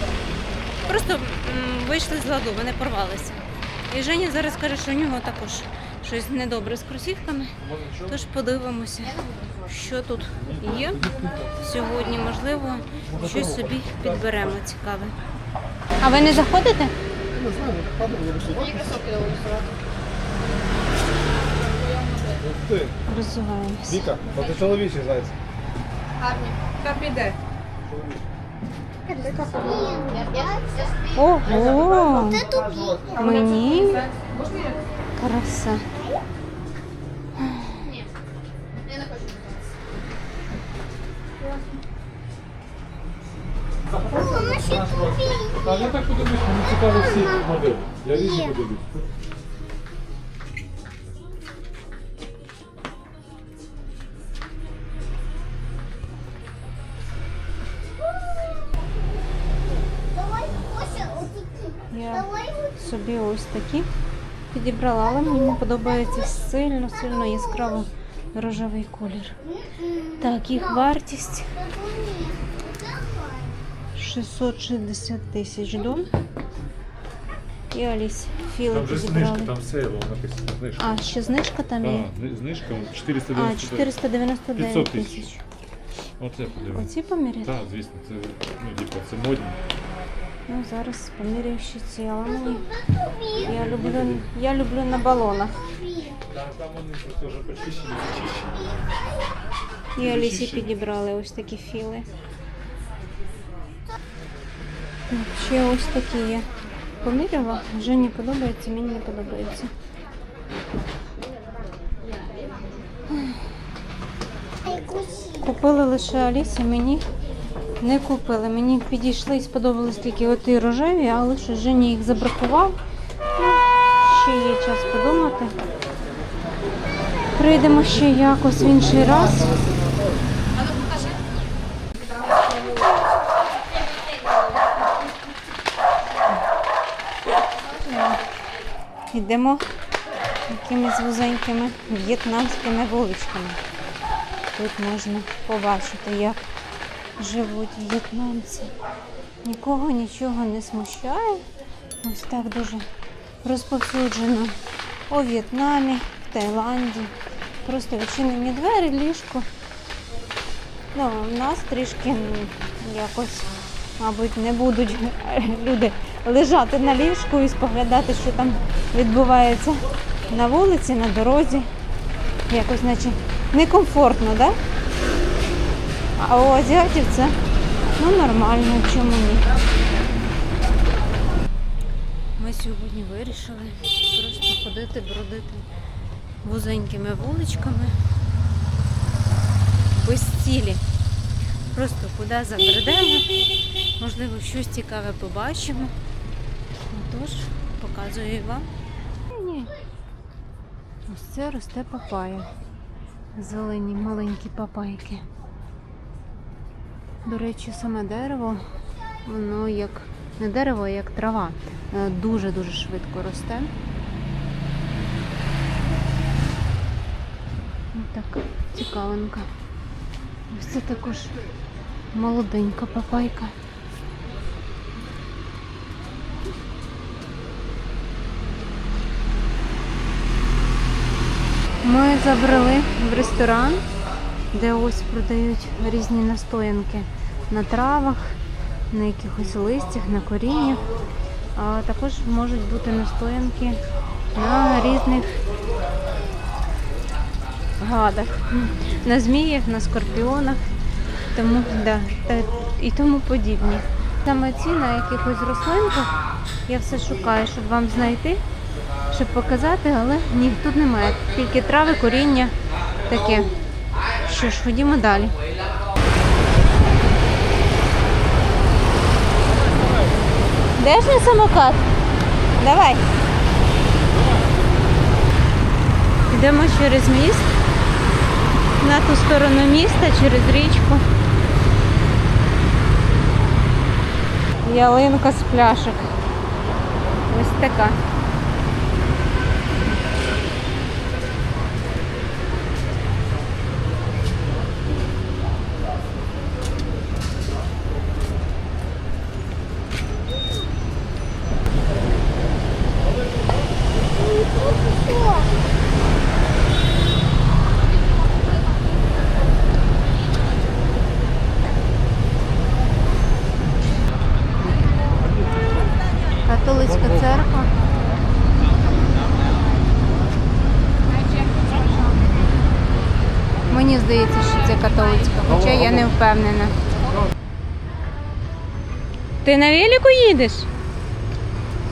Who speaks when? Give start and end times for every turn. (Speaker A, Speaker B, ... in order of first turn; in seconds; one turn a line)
Speaker A: 0.9-7.5
Speaker B: 7.6-8.2
Speaker A: 8.1-11.0
Speaker B: 10.4-11.5
Speaker A: 11.6-15.1
Speaker B: 13.1-14.6
Speaker A: 16.0-16.9
Speaker C: 17.3-19.4
Speaker D: 18.8-19.6
Speaker D: 21.5-22.4
Speaker C: 22.4-22.9
Speaker A: 23.1-24.1
Speaker C: 23.9-25.4
Speaker D: 26.2-27.4
Speaker D: 29.1-31.0
Speaker A: 31.1-32.5
Speaker C: 31.7-33.2
Speaker A: 33.2-34.1
Speaker D: 33.3-34.8
Speaker A: 35.2-35.9
Speaker A: 37.4-37.9
Speaker D: 38.9-39.4
Speaker B: 43.9-49.1
Speaker A: 61.9-63.9
Speaker A: 64.5-69.4
Speaker A: 70.2-71.5
Speaker A: 74.0-76.1
Speaker A: 77.7-79.5
Speaker B: 78.7-81.0
Speaker A: 80.8-82.1
Speaker B: 81.8-83.9
Speaker A: 83.3-85.4
Speaker B: 84.6-85.2
Speaker B: 86.2-86.9
Speaker A: 86.7-87.5
Speaker B: 87.5-89.6
Speaker A: 90.5-92.7
Speaker A: 93.3-95.7
Speaker B: 93.4-94.3
Speaker B: 96.3-98.9
Speaker A: 100.0-102.1
Speaker B: 100.0-100.7
Speaker A: 105.1-106.5
Speaker A: 107.0-109.7
Speaker A: 113.1-113.4
Speaker A: 114.7-117.0
Speaker A: 117.8-122.8
Speaker A: 123.4-125.5
Speaker A: 127.3-129.5
Speaker C: 128.5-130.2
Speaker D: 130.5-131.2
Speaker D: 132.0-133.0
Speaker D: 137.6-138.2
Speaker A: 139.1-139.6
Speaker A: 140.5-143.6
Speaker A: 144.6-146.4
Speaker A: 147.2-148.7
Speaker A: 149.4-151.4
Speaker A: 152.0-152.9
Speaker A: 153.4-154.6
Speaker A: 155.1-157.1
Speaker A: 157.6-159.5
Speaker A: 160.9-171.7
Speaker A: 172.5-174.6
Speaker A: 176.2-177.3
Speaker A: 178.0-179.5
Speaker A: 182.4-185.7
Speaker A: 186.4-187.9
Speaker A: 189.9-190.8
Speaker A: 191.7-193.3
Speaker A: 194.0-195.9
Speaker A: 196.9-198.7
Speaker A: 199.3-199.7
Speaker A: 201.1-202.5
Speaker A: 203.4-205.2
Speaker A: 207.2-208.6
Speaker A: 209.2-213.7
Speaker A: 217.9-219.5
Speaker A: 220.5-221.3
Speaker A: 222.1-223.5
Speaker A: 231.8-233.8
Speaker A: 234.5-238.4
Speaker A: 238.9-240.8
Speaker A: 241.6-243.8
Speaker A: 244.3-245.4
Speaker A: 247.8-250.6
Speaker A: 251.3-258.4
Speaker A: 259.1-262.6
Speaker A: 263.1-263.5
Speaker A: 264.2-265.4
Speaker A: 270.8-271.9
Speaker A: 272.6-273.0
Speaker B: 274.1-274.6
Speaker A: 276.3-277.6
Speaker A: 278.8-281.0
Speaker A: 284.6-286.1
Speaker A: 287.3-288.0
Speaker B: 315.2-316.0
Speaker A: 316.4-317.7
Speaker B: 316.9-317.3
Speaker D: 321.1-322.3
Speaker A: 323.7-326.8
Speaker D: 324.7-325.3
Speaker B: 325.5-326.1
Speaker A: 329.4-330.7